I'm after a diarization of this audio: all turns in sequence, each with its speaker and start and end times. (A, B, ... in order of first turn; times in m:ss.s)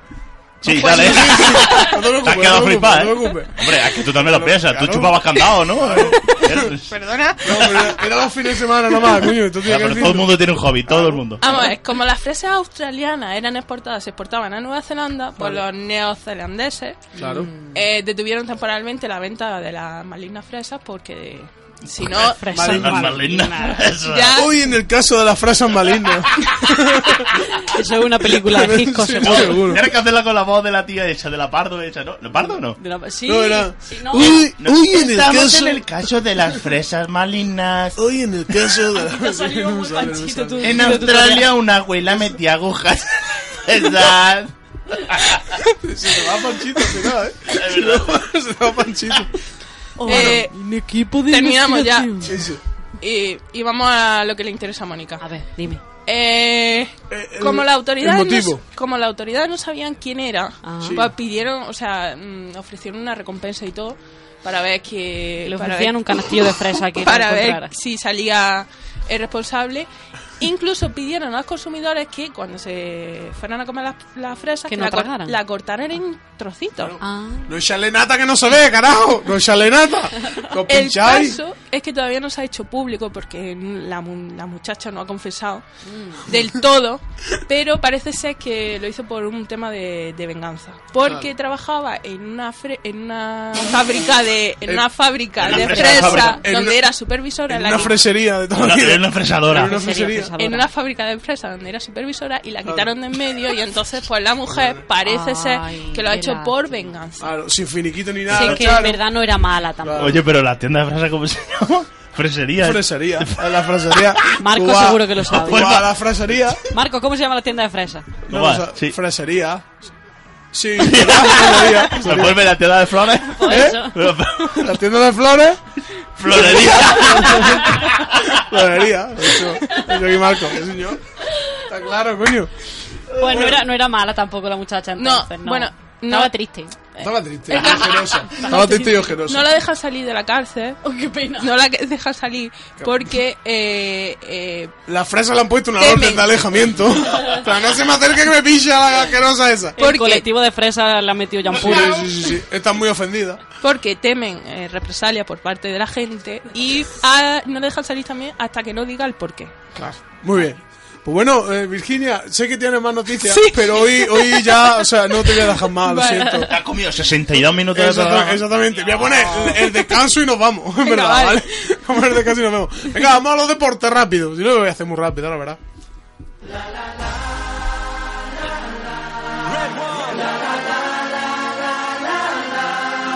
0:00.6-0:06.8 A
0:00.6-0:06.9 B
0:06.9-0:07.9 C
0:07.4-0:11.6 A
0:09.6-0:11.4 B
0:11.4-0:17.1 C
0:15.4-0:15.6 A
0:17.1-0:17.5 A
0:17.2-0:17.8 D
0:17.7-0:22.5 C
0:21.9-0:24.5 B
0:22.2-0:23.9 D
0:22.5-0:23.2 A
0:24.0-0:24.5 C
0:24.3-0:27.3 A
0:27.5-0:29.8 D
0:28.3-0:29.9 A
0:29.2-0:32.8 B
0:32.8-0:34.4 D
0:33.2-0:35.9 A
0:34.3-0:38.0 B
0:38.0-0:41.2 A
0:38.8-0:41.5 D
0:40.6-0:45.6 B
0:45.8-0:49.4 A
0:47.5-0:48.2 B
0:50.0-0:52.4 D
0:50.0-0:50.4 A
0:50.1-0:50.5 C
0:51.3-0:52.3 C
0:52.2-0:52.6 A
0:53.0-0:55.2 C
0:55.2-0:55.8 D
0:56.1-1:09.9 C
0:57.1-0:58.6 A
1:00.6-1:01.1 D
1:00.8-1:01.1 A
1:05.4-1:07.7 D
1:10.4-1:17.0 C
1:14.7-1:15.4 D
1:16.8-1:21.4 A
1:17.0-1:17.5 D
1:20.7-1:25.6 C
1:25.8-1:26.3 D
1:26.2-1:38.0 C
1:31.0-1:31.3 A
1:35.4-1:36.4 B
1:35.4-1:36.8 A
1:35.8-1:36.4 D
1:37.5-1:40.3 A
1:38.6-1:39.8 B
1:39.5-1:40.7 D
1:40.4-1:47.3 C
1:42.6-1:42.9 A
1:44.5-1:44.8 A
1:45.0-1:46.9 D
1:47.2-1:49.0 A
1:48.3-1:50.2 D
1:49.8-1:50.2 A
1:50.0-1:54.4 B
1:52.6-1:56.6 A
1:54.4-1:55.8 D
1:55.2-1:55.9 B
1:56.7-1:58.2 D
1:58.3-1:59.7 A
1:58.3-1:59.0 B
2:00.5-2:02.5 A
2:00.8-2:04.7 B
2:03.2-2:04.1 D
2:03.4-2:03.8 A
2:04.5-2:05.6 A
2:06.2-2:08.4 B
2:06.2-2:11.0 A
2:11.6-2:12.5 A
2:13.1-2:13.5 B
2:13.2-2:16.8 D
2:13.2-2:13.7 A
2:15.0-2:16.3 C
2:17.0-2:18.6 C
2:17.0-2:19.5 A
2:17.5-2:19.2 D
2:19.2-2:20.8 C
2:20.8-2:21.5 D
2:21.4-2:24.7 C
2:22.8-2:23.1 A
2:24.9-2:29.8 A
2:25.8-2:26.3 C
2:29.8-2:32.3 D
2:29.8-2:30.3 C
2:31.5-2:33.4 A
2:33.6-2:39.5 C
2:39.8-2:46.6 A
2:43.2-2:46.5 C
2:46.4-2:48.5 B
2:47.7-2:55.6 A
2:49.2-2:49.7 C
2:50.8-2:51.5 C